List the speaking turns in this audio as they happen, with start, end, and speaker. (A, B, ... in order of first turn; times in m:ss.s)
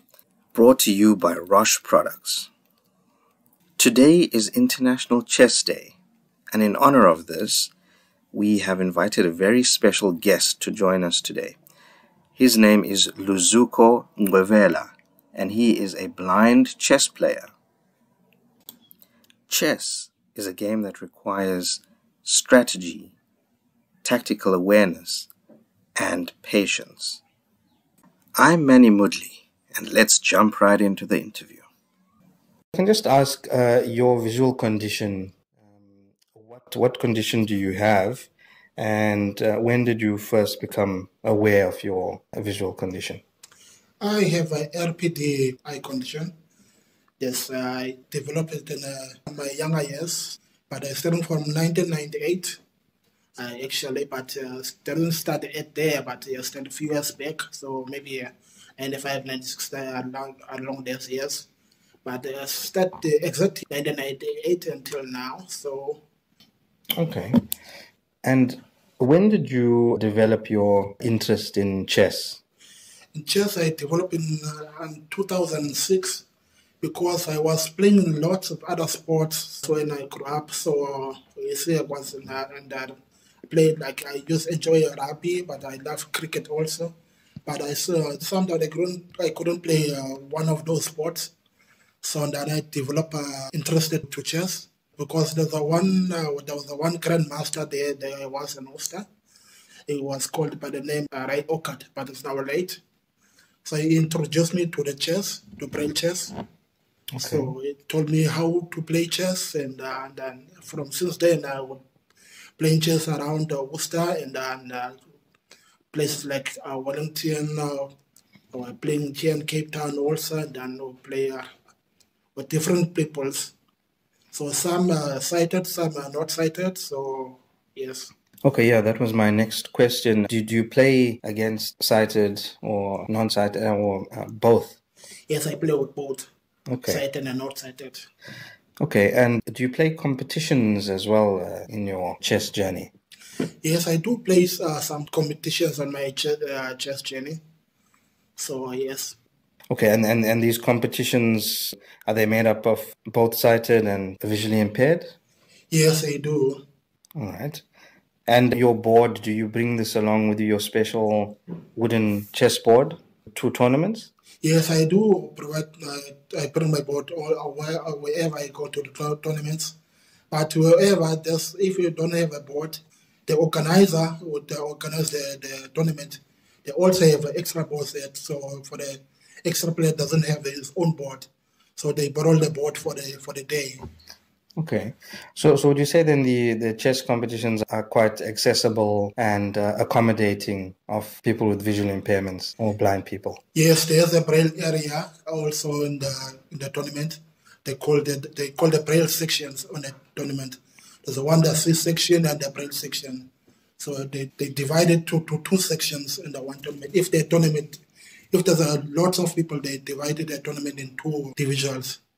0:00.5-0:02.5 A
0:03.8-0:06.0 A
0:06.5-0:07.7 A
0:08.3-0:11.6 A
0:12.4-0:17.5 A
0:19.5-0:23.1 A
0:24.0-0:25.3 A
0:26.0-0:27.2 A
0:28.4-0:31.6 A
0:32.7-0:43.2 A
0:44.0-0:46.3 B
0:47.2-0:52.6 B
0:53.4-1:01.5 B
1:02.0-1:06.0 B
1:07.0-1:07.4 A
1:08.2-1:12.4 A
1:13.1-1:16.2 B
1:16.8-1:22.9 B
1:23.5-1:26.9 B
1:27.4-1:31.3 B
1:32.0-1:39.0 B
1:39.9-1:42.8 B
1:43.6-1:46.3 B
1:47.1-1:47.5 A
1:47.2-1:51.8 B
1:52.6-1:55.0 B
1:55.9-1:57.9 B
1:58.5-2:01.5 B
2:02.3-2:03.5 B
2:04.3-2:08.1 B
2:08.4-2:14.8 A
2:15.3-2:16.3 B
2:16.7-2:17.0 A
2:16.8-2:18.1 B
2:18.8-2:22.9 A
2:23.6-2:27.4 B
2:28.4-2:29.2 B
2:29.7-2:35.1 A
2:35.7-2:36.6 B
2:37.2-2:37.6 A
2:38.3-2:44.1 A
2:44.4-2:49.8 B
2:50.3-3:03.8 B
3:04.6-3:13.4 A
3:13.5-3:27.8 B
3:28.3-3:32.0 B